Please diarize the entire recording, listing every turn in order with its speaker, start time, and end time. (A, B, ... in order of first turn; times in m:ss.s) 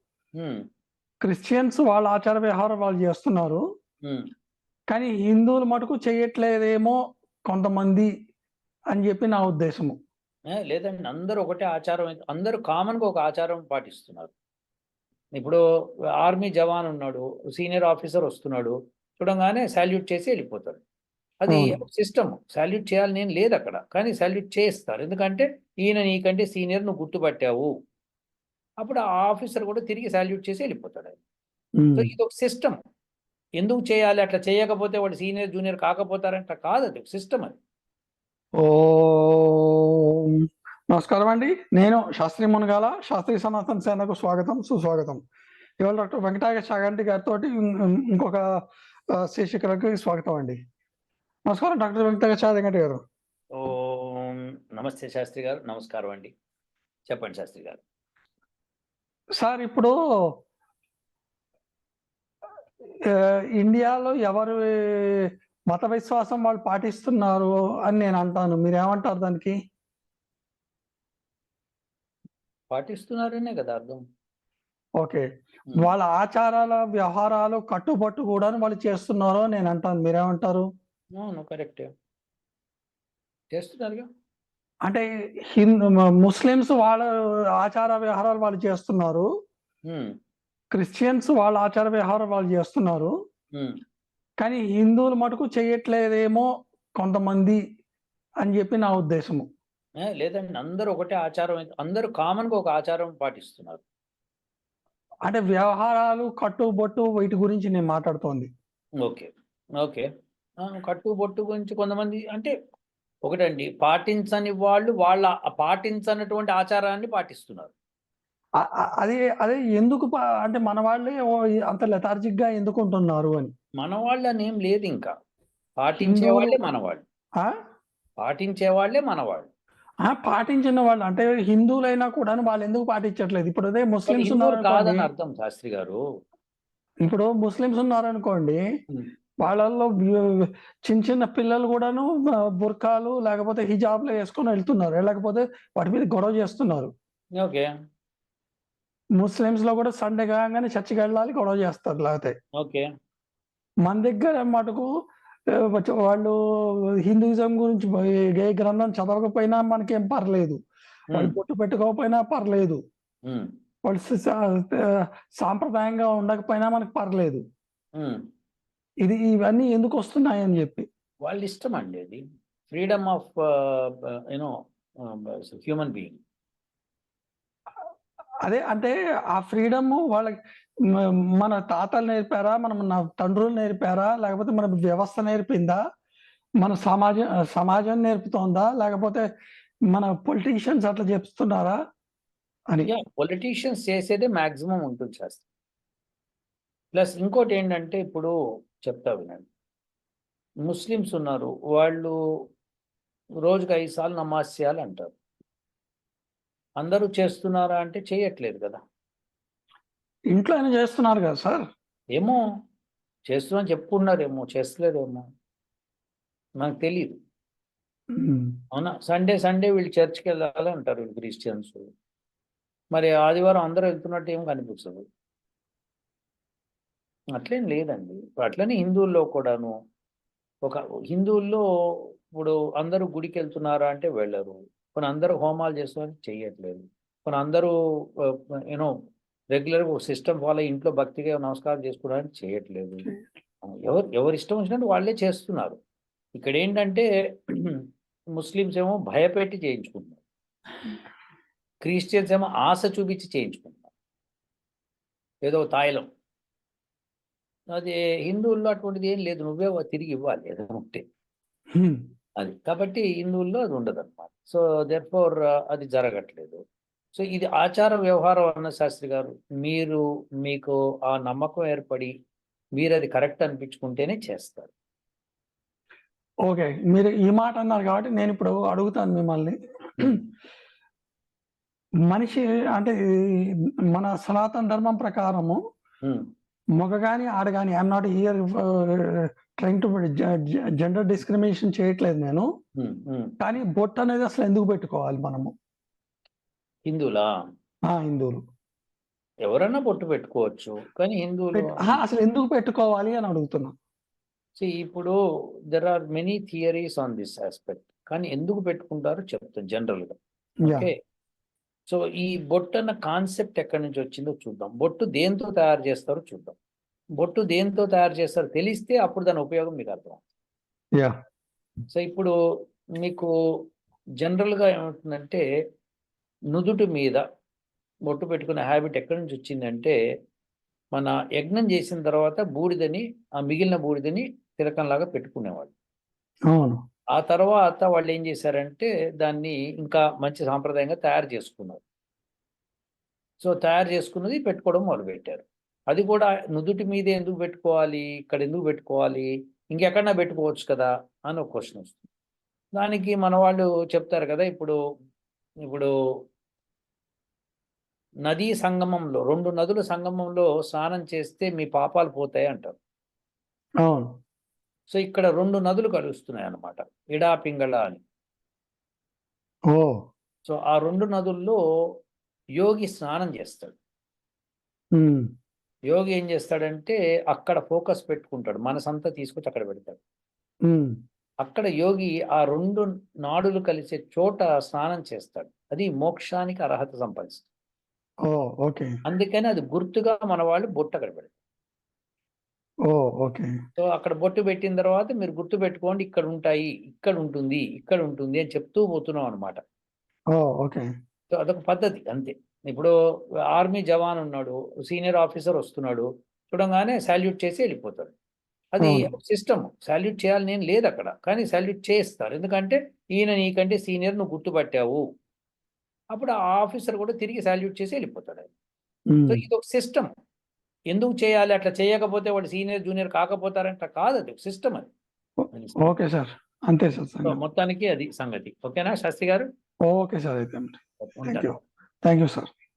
0:01.2-0:03.6 A
0:04.9-0:07.0 A
0:07.5-0:08.1 A
0:08.9-0:10.0 A
0:10.6-0:14.3 B
0:16.2-0:20.8 B
0:21.4-0:27.7 B
0:21.5-0:21.8 A
0:28.8-0:31.2 B
0:31.8-0:32.1 A
0:32.0-0:32.8 B
0:33.6-0:37.5 B
0:38.6-0:40.0 A
0:40.9-0:45.2 A
0:45.8-0:48.4 A
0:49.2-0:50.6 A
0:51.5-0:53.0 A
0:53.6-0:56.3 B
0:57.1-0:57.8 B
0:59.4-0:59.9 A
1:03.1-1:09.6 A
1:12.7-1:14.0 B
1:15.0-1:20.7 A
1:21.2-1:21.9 B
1:23.5-1:24.1 B
1:24.8-1:29.3 A
1:30.7-1:33.1 A
1:34.4-1:36.5 A
1:37.0-1:37.6 A
1:38.4-1:39.5 A
1:40.0-1:43.8 B
1:45.3-1:48.5 A
1:49.0-1:49.3 B
1:49.8-1:50.0 B
1:50.6-1:52.5 B
1:53.3-1:57.7 B
1:58.6-2:03.5 A
2:03.8-2:05.1 B
2:05.8-2:07.0 B
2:06.0-2:06.6 A
2:08.2-2:09.5 B
2:10.0-2:15.1 A
2:14.1-2:16.0 B
2:17.0-2:18.6 A
2:19.4-2:26.9 A
2:27.4-2:27.7 B
2:29.2-2:32.3 A
2:32.6-2:32.8 B
2:33.8-2:34.9 A
2:35.5-2:36.3 A
2:37.0-2:40.6 A
2:41.1-2:42.8 A
2:43.8-2:44.8 A
2:45.4-2:47.4 A
2:49.0-2:50.9 A
2:51.2-2:54.5 B
2:55.0-2:56.2 B
2:58.4-3:00.3 A
3:01.4-3:05.8 A
3:06.6-3:09.2 A
3:09.9-3:11.8 A
3:12.8-3:15.4 B
3:16.9-3:18.3 B
3:18.8-3:19.4 B
3:20.6-3:22.1 B
3:23.4-3:25.1 B
3:26.8-3:28.8 B
3:30.3-3:31.6 A
3:33.3-3:35.2 B
3:36.6-3:37.2 B
3:38.1-3:38.5 A
3:38.7-3:41.8 B
3:42.9-3:45.0 B
3:47.4-3:49.7 B
3:50.6-3:58.9 B
3:59.5-4:03.1 B
4:03.6-4:05.8 B
4:06.3-4:07.8 B
4:08.4-4:10.2 B
4:11.8-4:13.9 B
4:15.4-4:16.1 B
4:17.7-4:21.0 B
4:21.7-4:22.0 A
4:22.4-4:26.6 B
4:27.1-4:32.1 B
4:32.8-4:34.7 B
4:36.5-4:40.2 A
4:42.1-4:43.1 A
4:43.9-4:45.6 A
4:46.8-4:49.1 A
4:49.6-4:52.5 A
4:52.8-4:53.3 B
4:53.4-4:55.5 A
4:56.9-4:57.3 B
4:57.9-4:58.4 A
4:59.5-5:02.0 B
5:01.6-5:03.7 A
5:04.6-5:05.2 B
5:05.7-5:10.9 B
5:11.9-5:16.6 B
5:17.2-5:20.2 B
5:21.9-5:22.3 B
5:23.0-5:23.3 B
5:24.2-5:25.4 B
5:26.5-5:27.2 B
5:28.1-5:29.9 B
5:30.9-5:35.7 B
5:36.5-5:36.8 A
5:37.1-5:41.8 B
5:43.4-5:52.0 B
5:52.8-5:54.8 B
5:58.2-6:02.7 B
6:04.9-6:08.0 B
6:10.4-6:11.6 B
6:12.6-6:13.8 B
6:15.0-6:15.2 A
6:15.9-6:20.0 B
6:20.7-6:20.9 A
6:21.4-6:27.4 B
6:28.3-6:28.9 A
6:29.1-6:31.3 B
6:32.9-6:33.5 A
6:33.8-6:39.6 B
6:40.3-6:40.9 A
6:41.3-6:42.9 B
6:43.5-6:48.1 B
6:48.7-6:55.0 B
6:48.8-6:49.1 A
6:56.1-6:58.5 B
6:59.1-6:59.4 A
6:59.3-7:00.1 B
7:00.9-7:04.8 B
7:05.4-7:07.4 A
7:05.5-7:05.9 B
7:07.2-7:09.5 B
7:09.9-7:12.5 A
7:11.0-7:11.5 B